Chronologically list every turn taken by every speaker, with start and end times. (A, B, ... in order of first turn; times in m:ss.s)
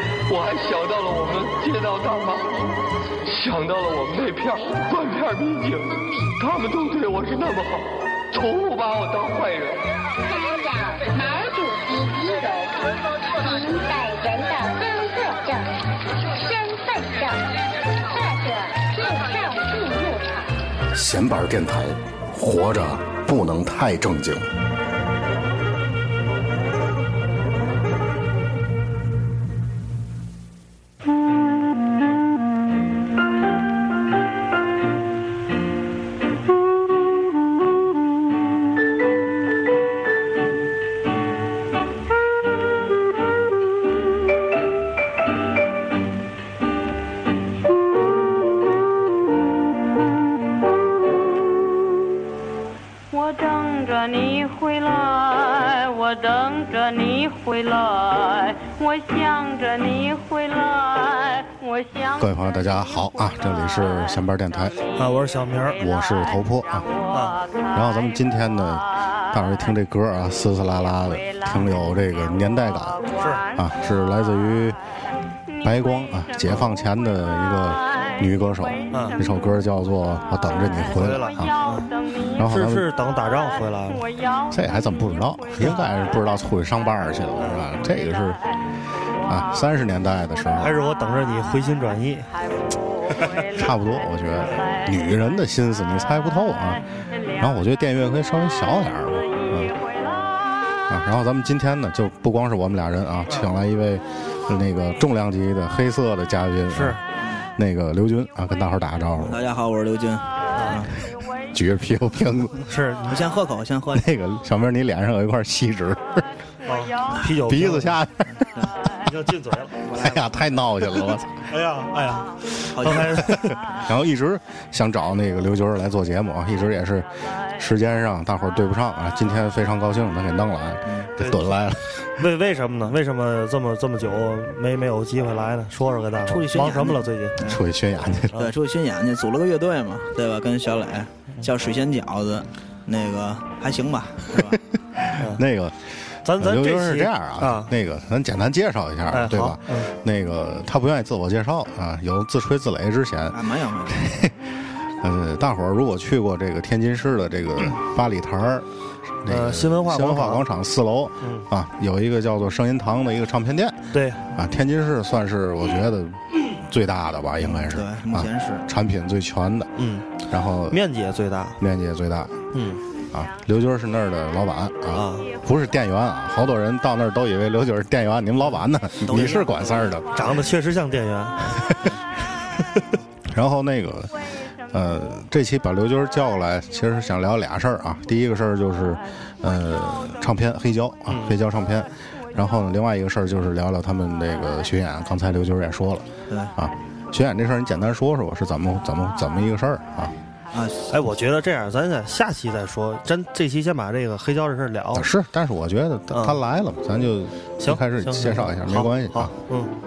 0:00.3-0:02.7 A
0:03.3-0:09.8 A
0:10.2-0:15.7 B
0:16.3-0:17.4 B
0:18.0-0:20.5 B
0:20.9-0:24.5 C
0:53.1-1:02.3 D
1:02.2-1:04.8 C
1:05.0-1:05.8 E
1:05.8-1:08.1 D
1:05.8-1:06.9 C
1:07.1-1:07.4 E
1:07.7-1:13.0 C
1:11.2-1:11.7 D
1:13.0-1:13.7 D
1:13.6-1:14.8 C
1:15.6-1:16.4 D
1:15.6-1:21.5 C
1:17.7-1:19.2 D
1:18.9-1:19.2 E
1:20.8-1:22.4 D
1:21.0-1:21.9 E
1:22.4-1:22.9 C
1:22.4-1:24.0 E
1:23.5-1:24.6 D
1:24.5-1:28.4 C
1:25.6-1:26.2 D
1:27.4-1:27.6 E
1:28.0-1:28.4 D
1:29.2-1:29.6 D
1:29.3-1:30.8 C
1:30.4-1:35.0 D
1:30.6-1:32.3 E
1:33.5-1:36.9 C
1:37.4-1:39.7 C
1:39.2-1:40.6 D
1:40.9-1:47.0 C
1:46.7-1:47.0 E
1:47.6-1:49.4 C
1:49.2-1:50.9 F
1:50.6-1:50.9 E
1:51.5-1:52.6 C
1:52.6-1:53.3 E
1:53.0-1:54.1 F
1:53.9-1:56.2 C
1:56.7-1:58.0 E
1:56.7-1:57.2 D
1:57.3-1:58.4 C
1:59.0-1:59.8 E
1:59.9-2:01.4 C
1:59.9-2:00.2 F
2:01.5-2:03.6 E
2:02.7-2:03.2 F
2:02.9-2:11.9 C
2:10.9-2:11.1 F
2:11.2-2:17.4 E
2:16.2-2:17.6 F
2:17.4-2:18.4 C
2:18.3-2:24.6 F
2:24.4-2:34.5 C
2:26.2-2:27.7 E
2:29.1-2:29.9 E
2:33.3-2:34.1 F
2:35.0-2:38.7 C
2:39.2-2:49.7 C
2:39.3-2:40.4 E
2:43.9-2:44.2 E
2:47.7-2:48.7 F
2:49.8-2:50.1 E
2:50.2-2:50.8 C
2:50.7-2:51.6 E
2:51.6-2:52.4 C
2:52.5-2:52.8 E
2:53.1-3:00.3 C
2:54.9-2:55.3 E
2:59.0-2:59.9 F
3:00.2-3:01.4 E
3:03.3-3:04.1 C
3:04.7-3:20.1 C
3:11.1-3:11.4 E
3:16.3-3:16.6 F
3:20.5-3:21.0 F
3:20.9-3:25.1 E
3:24.9-3:29.3 C
3:26.1-3:26.4 E
3:27.6-3:29.7 E